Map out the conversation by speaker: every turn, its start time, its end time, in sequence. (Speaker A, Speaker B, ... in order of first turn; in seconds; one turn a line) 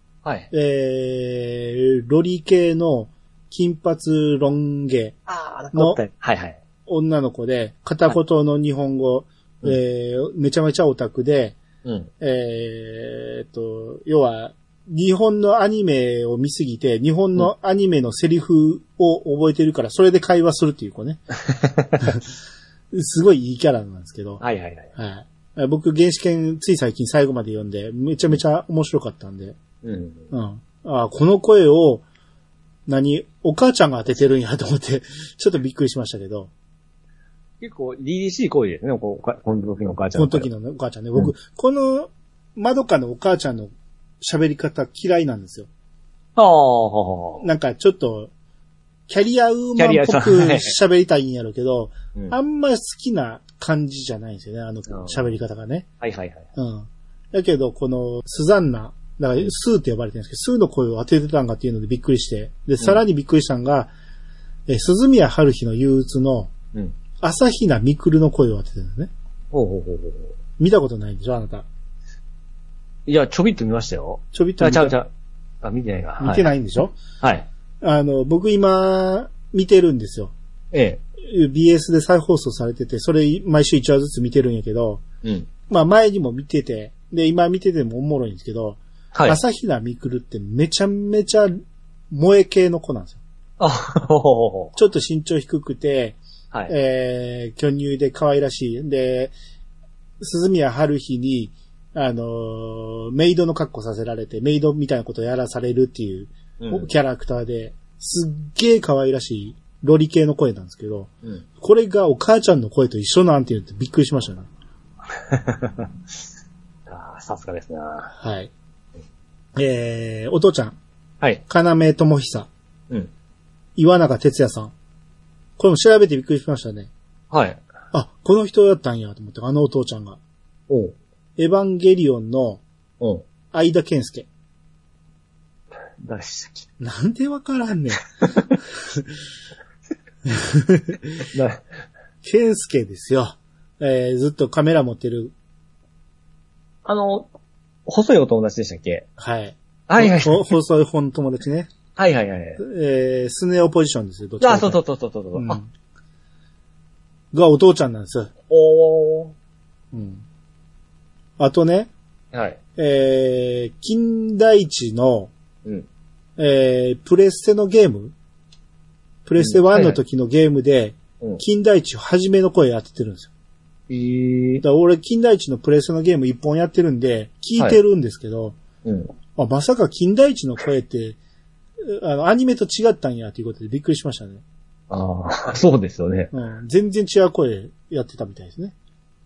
Speaker A: 0.2-0.5
Speaker B: 0.5-5.2
Speaker A: 5.3-6.6
Speaker B: 5.7-6.0
Speaker B: 6.9-11.6
Speaker A: 11.8-12.1
Speaker B: 12.2-21.2
Speaker A: 21.5-22.0
Speaker B: 22.0-22.2
Speaker B: 22.9-24.4
Speaker A: 24.4-24.9
Speaker B: 25.0-29.6
Speaker A: 29.8-30.2
Speaker B: 30.3-32.0
Speaker B: 32.9-36.5
Speaker A: 37.6-40.5
Speaker B: 40.1-45.7
Speaker A: 46.4-47.5
Speaker B: 47.4-48.3
Speaker B: 49.1-55.9
Speaker A: 49.8-50.8
Speaker A: 54.9-55.3
Speaker A: 56.0-56.5
Speaker B: 56.6-63.9
Speaker B: 64.7-66.5
Speaker B: 67.2-69.1
Speaker A: 69.5-70.3
Speaker B: 70.6-71.7
Speaker A: 73.1-75.1
Speaker B: 74.3-75.0
Speaker A: 75.6-76.5
Speaker B: 76.2-77.0
Speaker A: 77.2-77.5
Speaker B: 77.8-80.3
Speaker A: 80.7-81.0
Speaker B: 81.2-85.0
Speaker A: 85.2-85.5
Speaker B: 85.7-91.5
Speaker A: 89.1-89.4
Speaker B: 92.1-93.2
Speaker A: 93.6-94.7
Speaker B: 94.8-99.3
Speaker B: 100.2-114.5
Speaker A: 106.6-106.9
Speaker A: 115.2-115.9
Speaker A: 116.9-118.1
Speaker B: 118.2-118.5
Speaker B: 119.6-120.8
Speaker B: 121.5-122.5
Speaker B: 123.8-124.7
Speaker B: 125.6-126.9
Speaker A: 127.3-127.6
Speaker B: 127.9-130.2
Speaker A: 130.7-130.9
Speaker B: 131.4-132.6
Speaker B: 133.5-134.3
Speaker A: 136.0-136.7
Speaker B: 136.8-138.0
Speaker A: 138.2-138.5
Speaker B: 138.8-139.1
Speaker B: 140.3-141.3
Speaker A: 141.3-141.7
Speaker B: 142.2-145.3
Speaker A: 146.8-147.3
Speaker A: 147.9-149.1
Speaker B: 149.2-151.7
Speaker A: 149.9-150.5
Speaker A: 152.0-152.6
Speaker B: 152.6-154.8
Speaker A: 154.4-155.6
Speaker B: 155.3-155.7
Speaker B: 157.3-158.3
Speaker A: 158.5-159.3
Speaker B: 159.9-160.2
Speaker B: 161.4-161.9
Speaker A: 162.3-162.6
Speaker B: 162.8-165.3
Speaker B: 166.4-168.1
Speaker B: 169.3-173.3
Speaker A: 169.4-170.0
Speaker A: 173.9-174.6
Speaker B: 174.6-178.6
Speaker A: 178.8-179.1
Speaker B: 179.4-181.2
Speaker B: 181.8-184.4
Speaker A: 184.9-186.3
Speaker B: 186.3-188.8